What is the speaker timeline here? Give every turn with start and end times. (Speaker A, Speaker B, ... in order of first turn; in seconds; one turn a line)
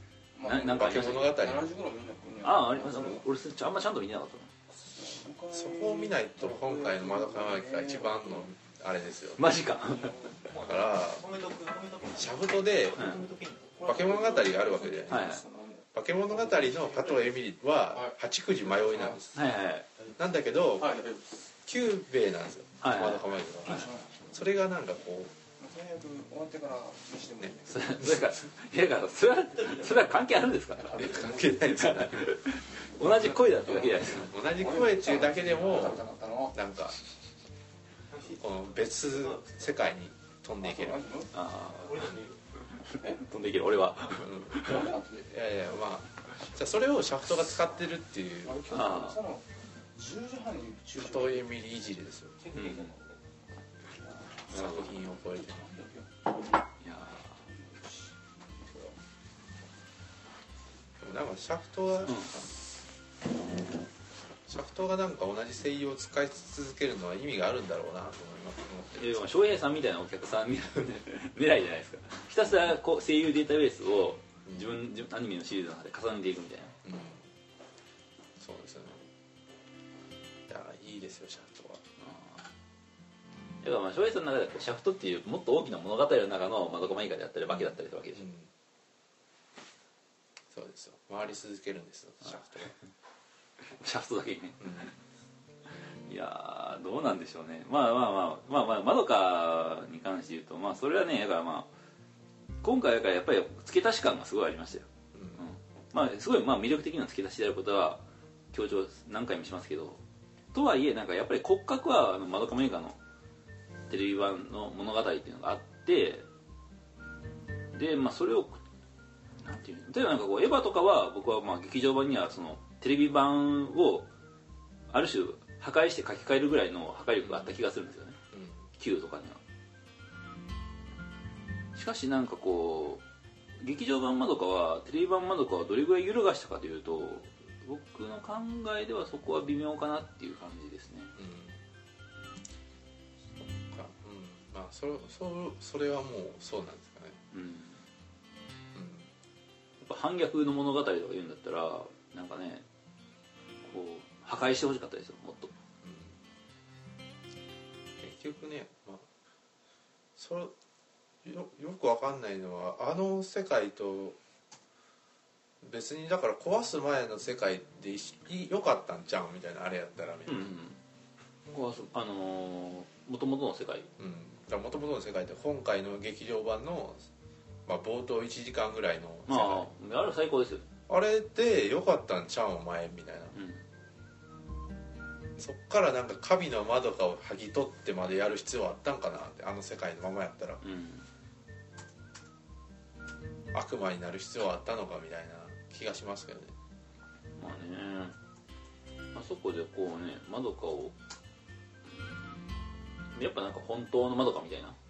Speaker A: 0.3-3.2
Speaker B: 0.4-1.4
Speaker C: 0.7-1.7
Speaker B: 2.4-4.5
Speaker A: 4.7-8.5
Speaker C: 5.5-9.4
Speaker B: 9.4-10.2
Speaker A: 10.0-10.3
Speaker D: 10.4-13.8
Speaker C: 10.6-11.3
Speaker C: 12.2-13.0
Speaker A: 13.8-15.9
Speaker C: 13.8-15.3
Speaker B: 15.1-15.4
Speaker C: 15.9-19.4
Speaker D: 16.3-17.3
Speaker A: 18.7-19.2
Speaker B: 19.4-19.9
Speaker C: 20.2-21.0
Speaker A: 20.8-21.5
Speaker C: 21.6-25.3
Speaker B: 22.8-23.3
Speaker A: 23.7-24.1
Speaker A: 25.6-27.8
Speaker C: 27.4-28.1
Speaker B: 27.7-31.0
Speaker D: 29.6-30.0
Speaker A: 30.8-31.8
Speaker C: 30.9-32.4
Speaker B: 31.6-34.3
Speaker C: 33.0-36.0
Speaker A: 33.6-36.6
Speaker C: 36.5-37.0
Speaker C: 38.3-41.0
Speaker D: 39.1-39.6
Speaker A: 40.6-41.3
Speaker B: 41.3-42.1
Speaker D: 41.8-42.4
Speaker B: 42.9-44.9
Speaker C: 44.2-44.6
Speaker A: 44.6-45.3
Speaker C: 45.2-48.6
Speaker A: 48.5-51.5
Speaker B: 48.7-49.2
Speaker C: 51.0-52.4
Speaker D: 52.4-53.1
Speaker B: 52.5-52.9
Speaker A: 54.0-54.8
Speaker B: 54.5-54.9
Speaker C: 54.5-55.7
Speaker A: 55.4-56.1
Speaker B: 56.8-57.4
Speaker A: 57.4-59.0
Speaker C: 61.0-62.5
Speaker C: 64.5-69.2
Speaker B: 69.0-76.8
Speaker C: 76.8-77.3
Speaker C: 78.4-79.1
Speaker C: 80.5-81.8
Speaker B: 82.0-82.3
Speaker B: 83.6-88.3
Speaker C: 87.5-88.5
Speaker C: 90.5-92.7
Speaker B: 93.7-94.9
Speaker C: 94.6-94.9
Speaker B: 95.9-101.7
Speaker B: 102.6-110.0
Speaker C: 105.1-105.4
Speaker B: 110.5-113.0
Speaker B: 113.9-116.3
Speaker B: 117.7-118.6
Speaker B: 119.4-124.1
Speaker B: 124.9-128.2
Speaker C: 128.3-128.6
Speaker B: 128.8-129.4
Speaker B: 131.8-133.0
Speaker B: 133.6-141.1
Speaker C: 141.2-141.6
Speaker C: 143.7-147.2
Speaker B: 147.3-147.8
Speaker C: 148.8-149.1
Speaker B: 149.8-152.7
Speaker B: 153.6-155.5
Speaker C: 155.8-156.2
Speaker C: 158.0-159.1
Speaker C: 160.2-160.5
Speaker C: 161.2-164.2
Speaker C: 165.6-170.5
Speaker B: 170.3-170.8
Speaker B: 171.5-173.9
Speaker C: 174.0-177.1
Speaker C: 177.7-179.7
Speaker B: 179.3-180.7
Speaker C: 180.9-183.4
Speaker B: 183.3-183.6
Speaker C: 185.4-190.6
Speaker B: 190.6-191.1
Speaker C: 193.5-196.5
Speaker B: 197.4-198.2
Speaker B: 199.1-201.0
Speaker B: 203.1-204.8